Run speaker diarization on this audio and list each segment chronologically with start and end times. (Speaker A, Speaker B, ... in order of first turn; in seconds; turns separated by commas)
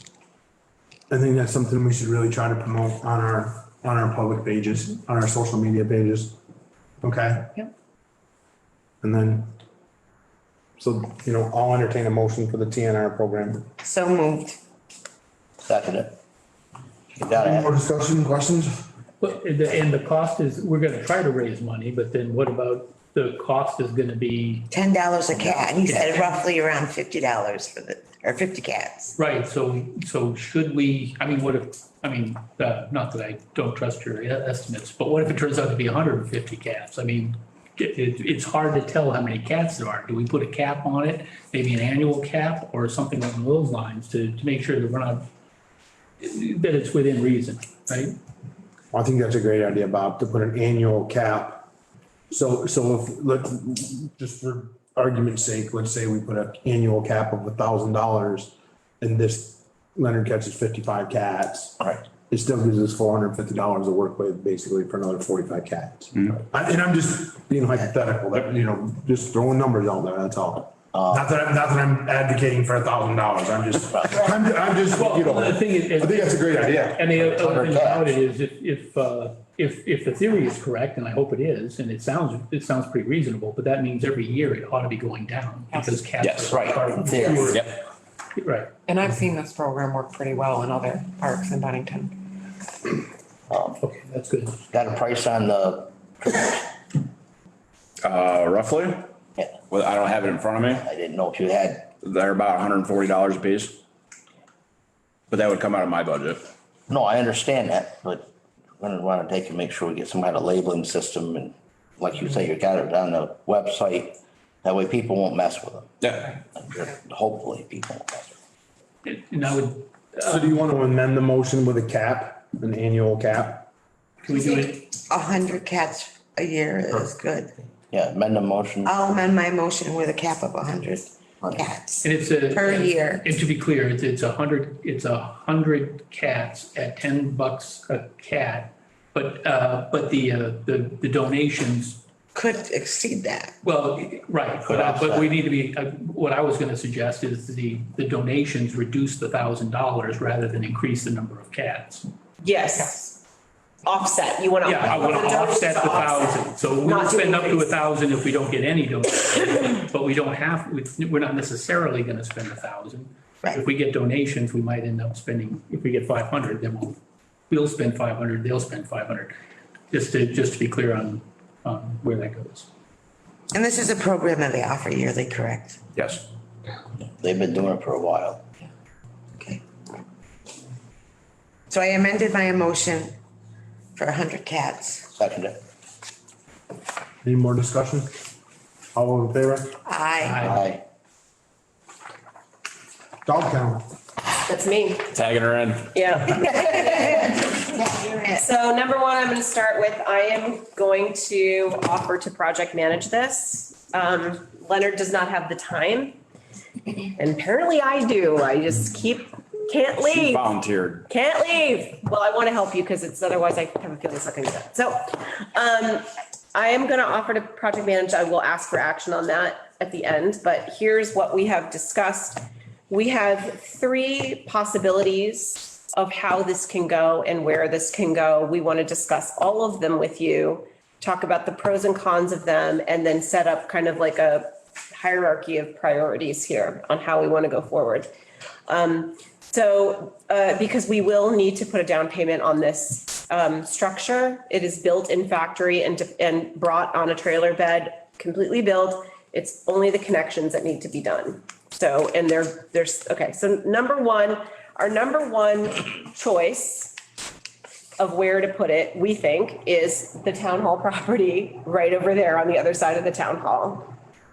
Speaker A: 1.1-6.4, Speaker A: 7.0-7.7, Speaker A: 9.0-9.5, Speaker A: 10.8-13.7, Speaker B: 13.8-14.6, Speaker C: 15.7-16.2, Speaker C: 17.2-17.8, Speaker A: 17.3-18.8, Speaker D: 19.2-24.7, Speaker B: 24.7-29.2, Speaker D: 25.4-26.3, Speaker D: 29.2-45.2, Speaker D: 46.2-48.2, Speaker A: 48.9-51.7, Speaker A: 52.3-77.1, Speaker C: 70.9-71.2, Speaker C: 73.9-74.3, Speaker D: 74.9-87.6, Speaker C: 77.3-78.1, Speaker E: 85.7-86.2, Speaker F: 86.2-87.7, Speaker C: 86.5-87.6, Speaker D: 88.4-88.7, Speaker E: 88.9-92.4, Speaker C: 93.5-93.8, Speaker D: 93.8-94.6, Speaker C: 94.7-96.6, Speaker F: 98.0-99.1, Speaker F: 99.7-100.9, Speaker C: 100.8-102.0, Speaker F: 102.0-103.8, Speaker F: 105.3-106.5, Speaker C: 106.9-108.2, Speaker C: 108.8-118.3, Speaker F: 116.0-116.4, Speaker D: 119.0-120.5, Speaker A: 120.2-123.7, Speaker D: 124.2-124.8, Speaker B: 124.3-127.5, Speaker C: 127.9-129.0, Speaker B: 128.8-133.3, Speaker D: 132.0-142.0, Speaker B: 142.3-143.6, Speaker D: 143.6-152.1, Speaker C: 144.7-145.2, Speaker G: 152.4-153.2, Speaker G: 153.8-157.7, Speaker D: 154.6-167.0, Speaker D: 167.5-169.3, Speaker D: 169.9-172.7, Speaker B: 173.5-175.8, Speaker F: 176.0-176.2, Speaker C: 177.2-178.4, Speaker B: 179.4-179.6, Speaker B: 181.7-183.2, Speaker B: 184.0-185.1, Speaker C: 185.2-185.6, Speaker A: 187.2-188.1, Speaker A: 188.9-189.8, Speaker B: 189.8-190.6, Speaker D: 190.2-190.6, Speaker C: 190.4-190.8, Speaker A: 193.3-193.8, Speaker G: 194.5-195.1, Speaker F: 195.1-196.0, Speaker G: 195.9-197.5, Speaker B: 196.3-198.5, Speaker G: 198.3-206.2, Speaker G: 207.2-210.5, Speaker F: 210.0-211.1, Speaker G: 211.1-238.1, Speaker G: 238.7-256.9, Speaker G: 258.0-263.9